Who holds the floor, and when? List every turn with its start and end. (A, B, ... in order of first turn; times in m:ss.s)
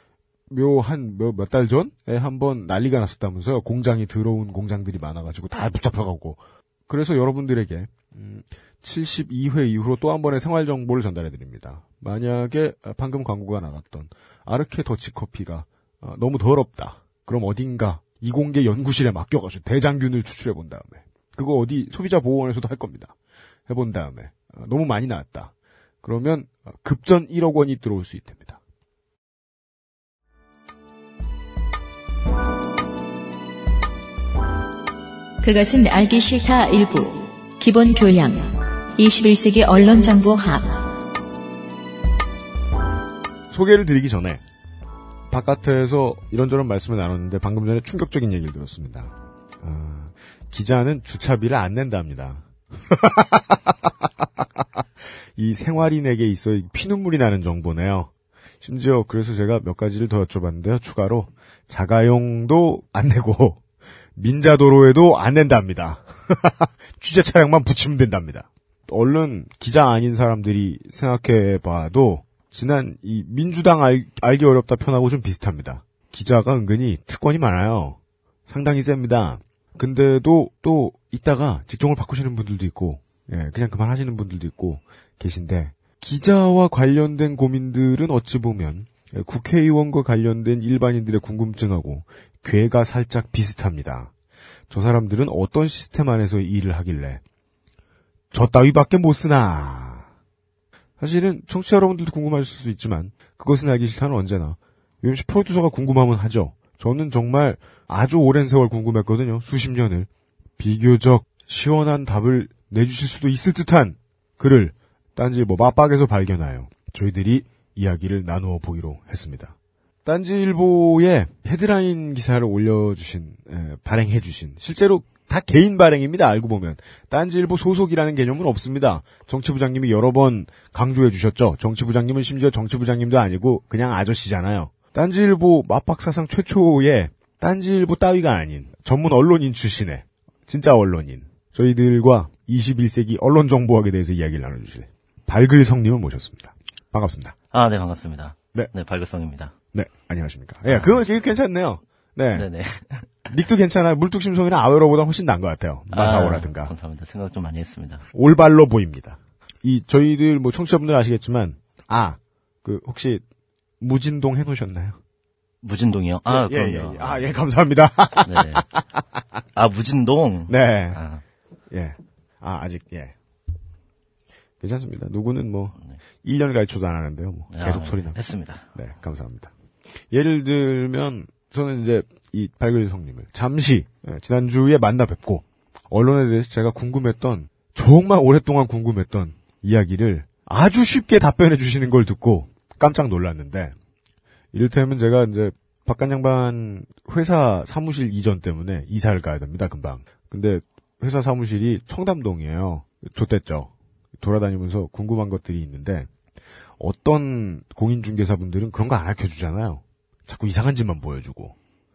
0:00.5-0:23.1 A
0:23.7-0:25.5 A
0:26.0-0:28.6 A
0:35.4-0:40.9 B
0:43.5-0:44.4 A
0:45.3-0:54.6 A
0:55.4-0:58.1 A
0:58.6-1:03.6 A
1:04.2-1:34.1 A
1:34.7-1:37.2 A
1:38.3-1:40.1 A
1:41.0-2:27.4 A
2:27.5-2:29.5 C
2:29.7-2:32.5 A
2:30.7-2:31.0 C
2:32.4-2:33.3 C
2:33.3-2:36.7 A
2:35.9-2:38.0 C
2:38.1-2:43.2 A
2:43.8-2:45.0 A
2:45.6-2:47.3 C
2:46.3-2:49.0 A
2:48.2-2:48.7 C
2:49.6-2:51.2 C
2:50.5-2:51.0 A
2:51.7-2:53.1 A
2:54.6-2:58.2 A
2:57.5-2:58.7 C
2:58.7-2:59.5 A
3:00.1-3:13.7 A
3:14.5-3:26.1 A
3:26.8-3:31.6 A